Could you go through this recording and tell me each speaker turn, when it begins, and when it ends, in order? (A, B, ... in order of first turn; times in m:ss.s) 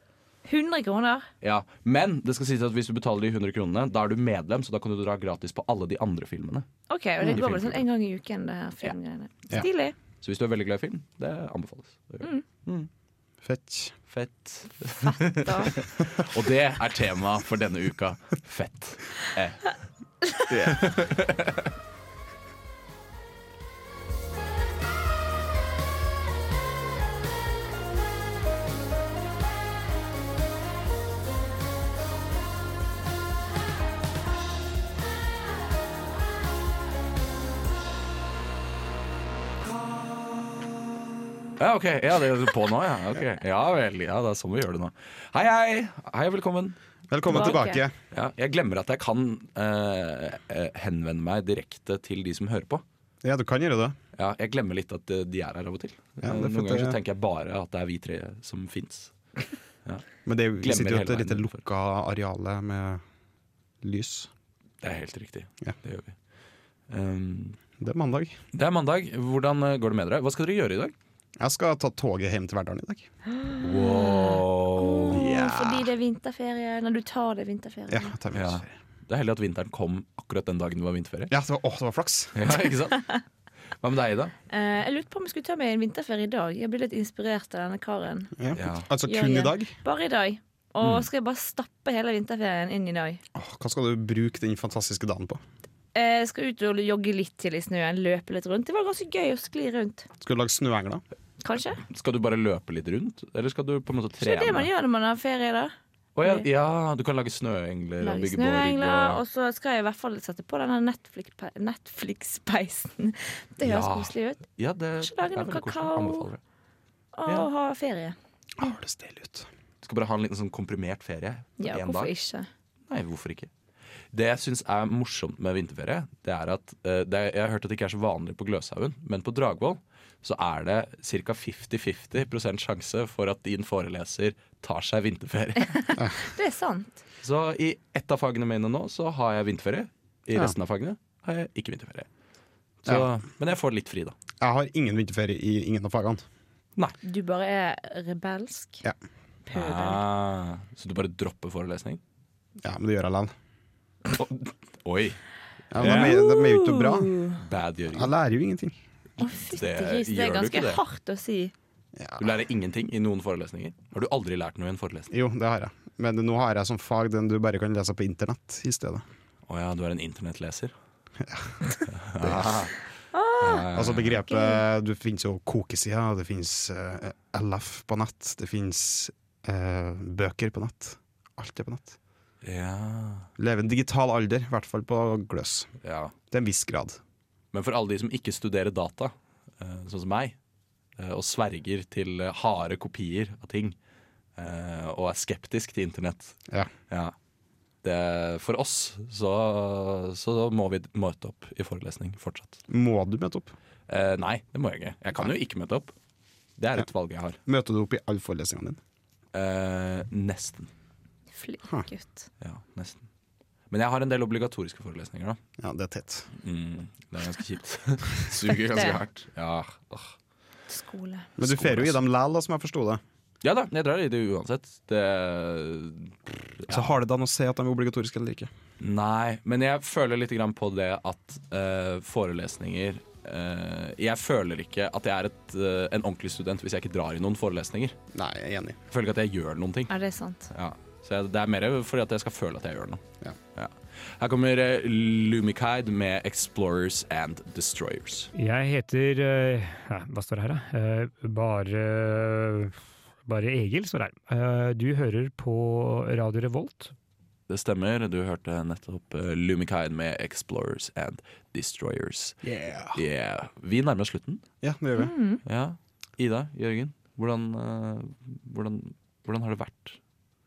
0:00.4-0:01.3 A
0:01.4-0:06.7 B
0:06.9-0:09.9 A
0:07.2-0:07.8 B
0:10.2-0:12.9 B
0:13.4-0:14.0 C
0:14.1-0:19.8 B
0:14.9-0:15.7 A
0:20.5-0:21.7 B
0:41.6-0:46.8 B
0:47.1-0:47.9 C
0:47.3-0:47.8 A
0:47.3-0:47.6 B
0:48.1-0:52.8 B
0:53.2-0:54.0 C
0:54.2-0:59.1 B
0:56.2-0:57.0 C
1:00.2-1:03.0 C
1:00.6-1:01.6 B
1:03.8-1:04.3 C
1:04.8-1:06.2 B
1:06.9-1:07.6 B
1:07.8-1:08.4 C
1:08.5-1:10.9 B
1:11.4-1:13.1 C
1:13.4-1:18.1 A
1:13.6-1:15.3 B
1:15.1-1:15.8 C
1:17.9-1:18.7 C
1:18.3-1:21.3 B
1:21.3-1:22.4 C
1:22.3-1:23.1 B
1:23.8-1:24.3 B
1:24.5-1:28.3 A
1:28.4-1:29.7 C
1:28.5-1:28.9 B
1:29.0-1:33.2 A
1:33.4-1:35.4 C
1:35.9-1:40.1 A
1:40.2-1:41.0 C
1:41.4-1:41.8 A
1:41.9-1:44.7 B
1:44.2-1:45.7 A
1:46.2-1:49.2 B
1:48.0-1:54.4 A
1:53.6-1:56.4 B
1:55.0-1:56.3 A
1:57.1-1:58.2 A
1:58.6-1:59.5 C
1:59.8-2:02.1 B
2:01.6-2:02.5 A
2:02.9-2:03.5 B
2:04.1-2:15.8 B
2:15.7-2:17.0 A
2:17.2-2:22.1 B
2:22.8-2:24.1 B
2:24.4-2:26.2 C
2:27.0-2:28.8 A
2:29.4-2:30.0 A
2:29.5-2:32.0 B
2:32.6-2:33.3 C
2:34.1-2:35.2 B
2:35.7-2:37.1 C
2:35.7-2:36.1 B
2:35.8-2:37.4 A
2:37.4-2:38.1 B
2:37.9-2:38.8 C
2:39.2-2:41.5 A
2:39.5-2:40.8 B
2:42.0-2:42.4 C
2:42.2-2:45.1 B
2:45.1-2:49.0 C
2:49.5-2:50.7 B
2:51.2-2:51.6 C
2:51.9-2:52.8 B
2:52.2-2:52.6 C
2:53.1-2:53.7 A
2:53.4-2:54.2 B
2:53.7-3:02.0 C
2:54.3-2:54.6 A
3:02.4-3:03.3 B
3:03.4-3:05.7 C
3:05.8-3:06.1 B
3:06.3-3:07.0 C
3:07.5-3:10.4 B
3:11.0-3:13.7 B
3:14.4-3:16.4 B
3:16.9-3:17.1 B
3:17.8-3:22.6 B
3:22.7-3:23.5 C
3:23.9-3:25.9 B
3:26.6-3:27.4 B
3:27.4-3:28.8 C
3:29.3-3:30.7 B
3:31.3-3:32.3 A
3:32.4-3:33.0 B
3:33.7-3:35.4 B
3:35.6-3:36.3 C
3:36.4-3:40.1 B
3:38.7-3:39.0 A
3:40.7-3:41.3 A
3:41.4-3:43.0 C
3:41.4-3:42.0 B
3:43.4-3:46.9 B
3:46.7-3:48.5 C
3:48.8-3:58.0 B
3:58.1-3:58.8 C
3:58.9-3:59.9 B
3:59.9-4:00.5 A
4:00.5-4:03.0 B
4:03.6-4:08.3 B
4:08.4-4:16.9 D
4:17.5-4:24.4 B
4:22.4-4:23.0 C
4:24.6-4:25.1 C
4:25.0-4:25.4 A
4:25.4-4:30.0 B